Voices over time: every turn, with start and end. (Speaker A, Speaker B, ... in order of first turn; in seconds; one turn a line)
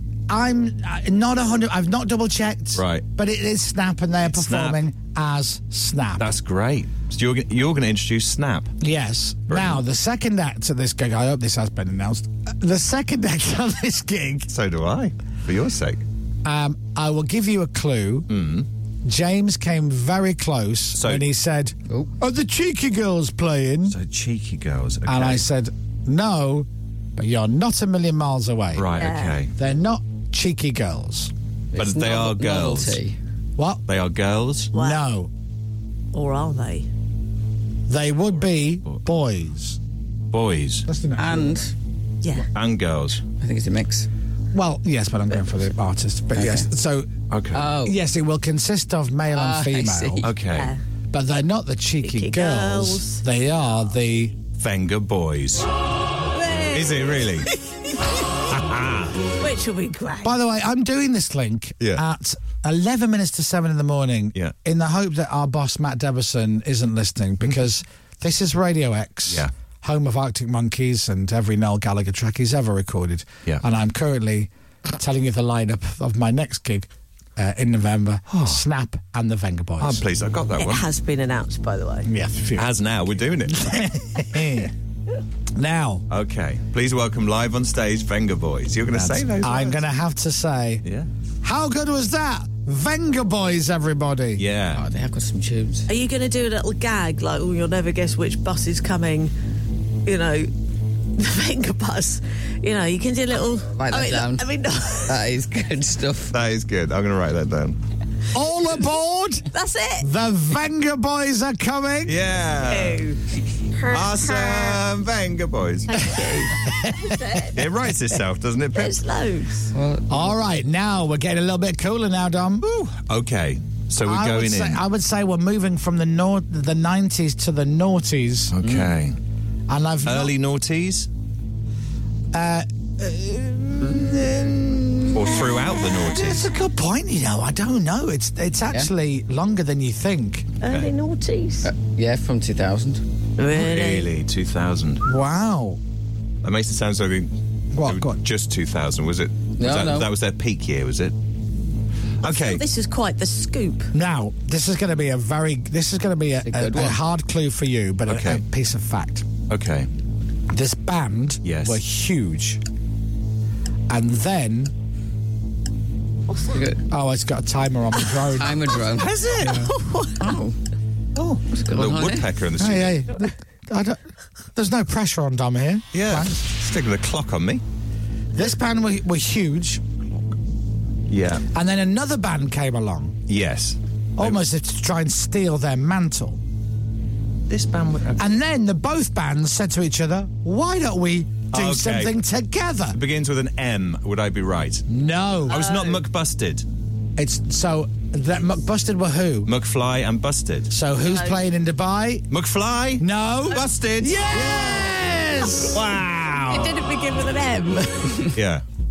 Speaker A: 0.3-6.3
Speaker B: 2.8-3.0
Speaker B: 4.2-4.8
Speaker B: 6.2-8.7
Speaker A: 8.8-14.5
Speaker B: 9.5-9.8
Speaker B: 14.5-16.0
Speaker A: 16.4-18.3
Speaker B: 18.3-18.7
Speaker A: 19.0-23.9
Speaker B: 20.9-21.2
Speaker B: 23.9-25.4
Speaker A: 25.1-29.0
Speaker B: 28.7-29.5
Speaker C: 28.9-29.4
Speaker A: 29.5-31.3
Speaker D: 31.7-33.2
Speaker B: 31.7-33.0
Speaker A: 33.6-33.8
Speaker B: 33.9-34.7
Speaker C: 34.7-35.0
Speaker A: 34.7-35.3
Speaker C: 36.1-36.9
Speaker A: 37.9-39.8
Speaker B: 40.3-40.9
Speaker A: 40.9-41.6
Speaker D: 41.2-41.7
Speaker B: 42.5-43.2
Speaker D: 43.3-44.1
Speaker A: 44.5-47.1
Speaker D: 46.4-46.7
Speaker B: 47.3-47.7
Speaker D: 47.5-48.0
Speaker A: 47.8-50.3
Speaker D: 49.3-50.3
Speaker B: 50.2-50.7
Speaker C: 50.5-50.8
Speaker A: 51.1-54.4
Speaker C: 52.0-53.2
Speaker B: 54.6-55.7
Speaker C: 56.3-57.5
Speaker B: 56.7-57.5
Speaker B: 58.5-59.2
Speaker C: 59.4-60.4
Speaker A: 60.2-80.0
Speaker B: 78.3-78.6
Speaker B: 79.8-80.8
Speaker C: 80.6-82.1
Speaker A: 82.0-82.7
Speaker B: 82.5-83.8
Speaker A: 83.5-84.7
Speaker A: 85.5-86.0
Speaker B: 86.1-89.8
Speaker A: 88.9-90.8
Speaker B: 90.8-91.1
Speaker A: 91.4-94.4
Speaker B: 94.4-94.8
Speaker D: 94.7-95.9
Speaker C: 95.9-99.3
Speaker C: 100.0-100.5
Speaker C: 101.1-105.2
Speaker D: 103.8-104.5
Speaker D: 105.1-106.3
Speaker B: 106.3-107.8
Speaker A: 108.3-109.5
Speaker C: 109.5-110.1
Speaker A: 110.0-112.1
Speaker B: 112.0-113.0
Speaker C: 112.6-113.2
Speaker C: 113.7-114.8
Speaker B: 113.9-116.0
Speaker C: 115.9-117.5
Speaker A: 116.6-117.2
Speaker B: 117.5-118.9
Speaker C: 118.7-119.7
Speaker D: 119.7-120.3
Speaker A: 120.1-122.7
Speaker B: 122.6-124.8
Speaker A: 124.0-128.5
Speaker B: 128.5-129.2
Speaker D: 128.6-128.9
Speaker A: 129.7-130.3
Speaker B: 130.0-131.1
Speaker A: 132.3-135.4
Speaker B: 135.1-136.4
Speaker A: 136.1-140.5
Speaker C: 140.6-141.7
Speaker B: 140.6-140.9
Speaker D: 141.6-143.0
Speaker C: 143.4-144.1
Speaker B: 143.5-145.0
Speaker A: 145.0-145.8
Speaker B: 146.4-151.1
Speaker A: 147.7-148.2
Speaker D: 149.6-150.1
Speaker B: 152.2-152.6
Speaker C: 152.2-153.9
Speaker A: 153.9-159.3
Speaker D: 156.4-157.0
Speaker B: 158.1-158.4
Speaker B: 159.5-159.9
Speaker A: 160.5-162.6
Speaker B: 161.4-161.8
Speaker A: 163.9-164.7
Speaker D: 166.5-166.8
Speaker A: 166.9-168.8
Speaker D: 168.3-170.5
Speaker B: 168.9-169.6
Speaker C: 169.6-170.4
Speaker B: 171.2-173.0
Speaker D: 171.6-172.2
Speaker A: 172.6-174.0
Speaker A: 174.5-176.4
Speaker B: 175.9-177.6
Speaker A: 178.3-179.8
Speaker B: 181.1-181.4
Speaker A: 181.5-183.2
Speaker B: 183.3-184.4
Speaker A: 184.2-186.4
Speaker B: 187.5-188.3
Speaker A: 188.2-193.0
Speaker B: 191.5-192.2
Speaker B: 192.9-194.8
Speaker A: 194.9-195.7
Speaker B: 195.5-196.6
Speaker C: 195.5-196.0
Speaker A: 197.2-199.5
Speaker B: 199.5-200.7
Speaker A: 200.7-202.3
Speaker C: 201.1-201.4
Speaker B: 202.3-205.0
Speaker A: 203.0-206.4
Speaker C: 204.3-204.7
Speaker C: 205.4-205.7
Speaker B: 205.7-206.7
Speaker C: 206.5-208.3
Speaker B: 208.3-208.6